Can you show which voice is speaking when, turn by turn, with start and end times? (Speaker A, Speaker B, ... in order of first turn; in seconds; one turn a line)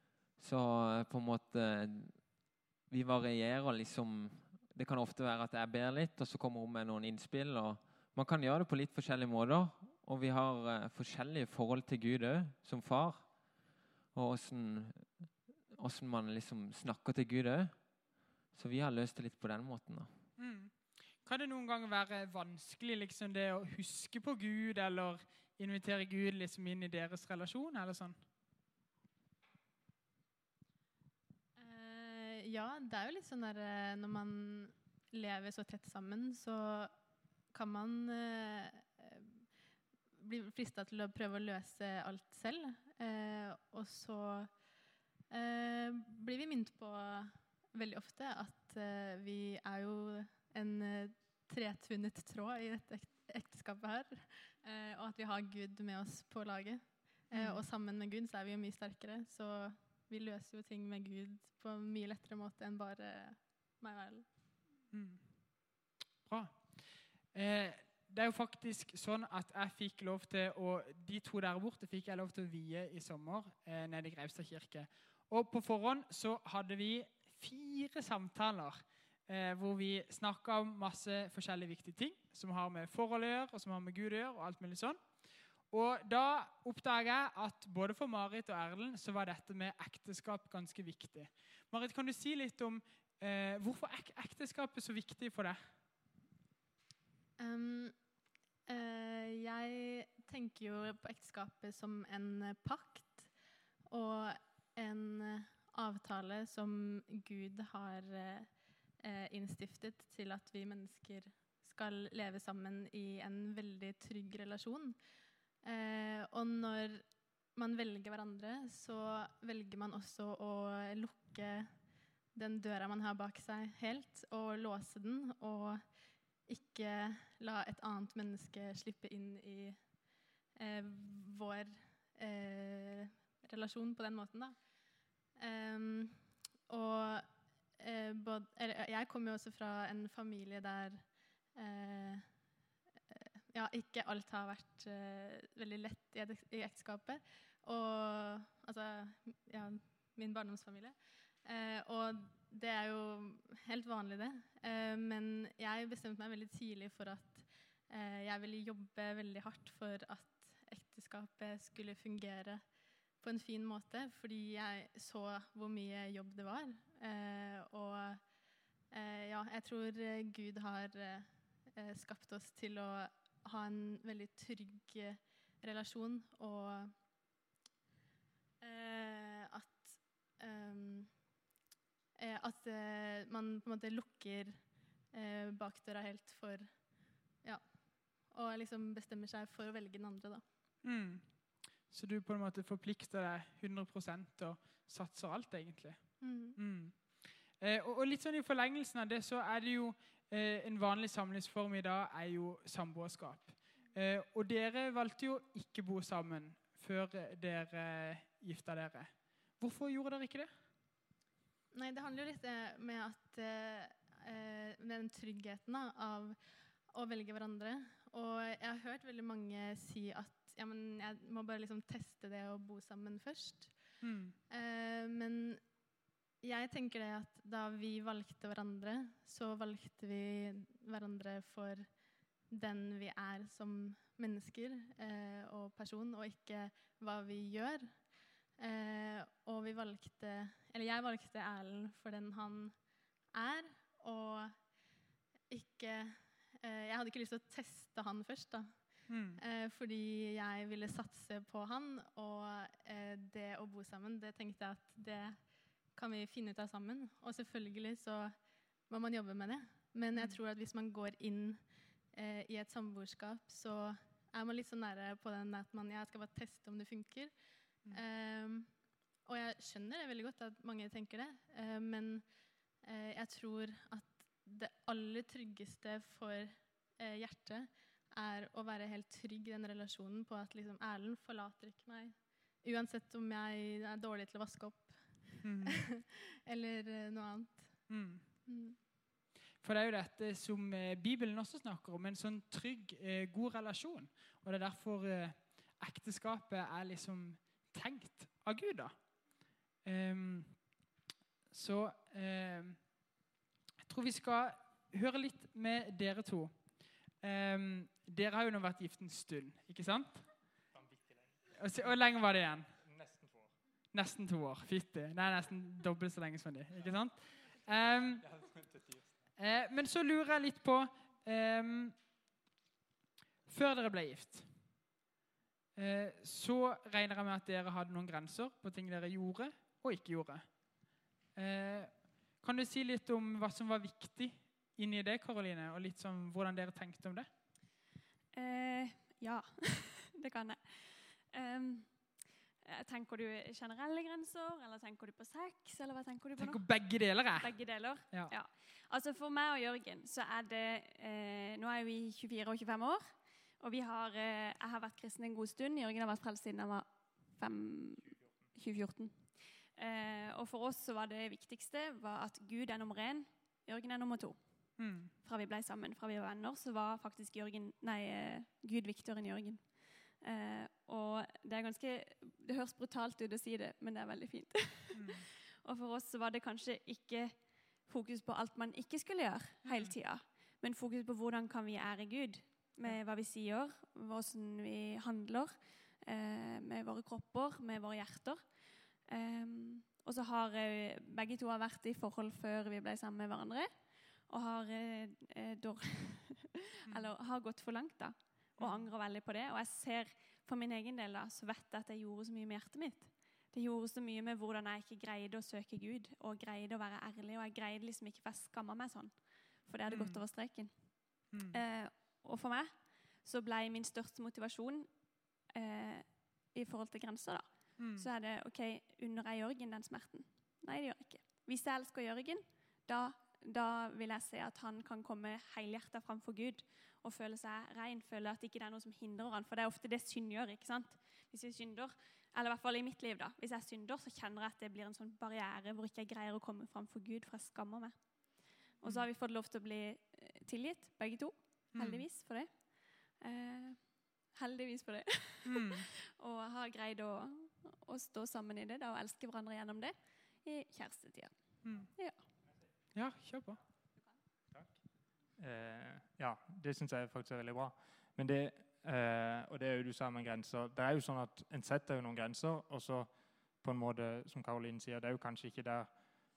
Speaker A: 0.4-2.3
Speaker A: 2.9-13.3
Speaker A: 14.1-17.8
Speaker A: 18.5-20.1
Speaker B: 20.4-28.2
Speaker C: 31.6-36.9
Speaker C: 37.5-39.4
Speaker C: 40.2-44.5
Speaker C: 45.3-64.2
Speaker B: 57.3-57.6
Speaker B: 64.9-65.6
Speaker B: 66.2-95.6
Speaker C: 97.4-98.0
Speaker C: 98.7-103.3
Speaker C: 103.9-108.5
Speaker C: 109.0-115.0
Speaker C: 115.6-117.0
Speaker C: 117.5-121.7
Speaker C: 122.3-125.8
Speaker C: 126.5-129.8
Speaker C: 130.5-134.5
Speaker C: 135.3-137.2
Speaker C: 137.8-142.2
Speaker C: 143.1-162.6
Speaker C: 163.2-168.2
Speaker C: 168.9-176.9
Speaker C: 178.6-181.2
Speaker C: 182.2-186.7
Speaker C: 187.4-190.4
Speaker B: 190.8-210.5
Speaker C: 196.2-196.6
Speaker C: 211.7-216.4
Speaker C: 216.9-223.8
Speaker B: 224.0-224.3
Speaker C: 224.5-225.6
Speaker C: 226.4-231.9
Speaker C: 232.5-238.0
Speaker C: 238.6-242.8
Speaker C: 243.3-244.6
Speaker C: 245.5-255.4
Speaker B: 249.1-249.4
Speaker C: 255.9-258.3
Speaker C: 258.9-267.3
Speaker B: 260.1-260.4
Speaker C: 267.9-268.7
Speaker C: 269.2-272.2
Speaker C: 272.8-285.2
Speaker B: 285.4-285.8
Speaker C: 285.9-288.8
Speaker B: 287.9-288.2
Speaker B: 289.6-299.2
Speaker B: 299.8-300.8
Speaker B: 301.5-302.9
Speaker B: 303.8-310.3
Speaker D: 310.7-311.9
Speaker B: 311.6-312.7
Speaker D: 312.8-313.5
Speaker B: 313.9-318.2
Speaker D: 318.2-319.1
Speaker B: 319.4-322.0
Speaker B: 323.5-324.5
Speaker B: 325.8-330.8
Speaker B: 331.3-337.3
Speaker E: 338.3-364.4
Speaker B: 346.4-347.5
Speaker B: 348.1-348.3
Speaker B: 364.8-365.1
Speaker E: 365.2-388.4
Speaker B: 374.9-375.2
Speaker B: 379.6-379.9
Speaker E: 389.0-452.2
Speaker B: 398.6-398.9
Speaker B: 409.9-410.2
Speaker B: 411.3-411.6
Speaker B: 417.8-418.1
Speaker B: 441.7-442.0
Speaker B: 445.4-445.9
Speaker B: 451.6-451.9
Speaker B: 452.9-453.6
Speaker D: 454.5-454.8
Speaker D: 455.3-466.0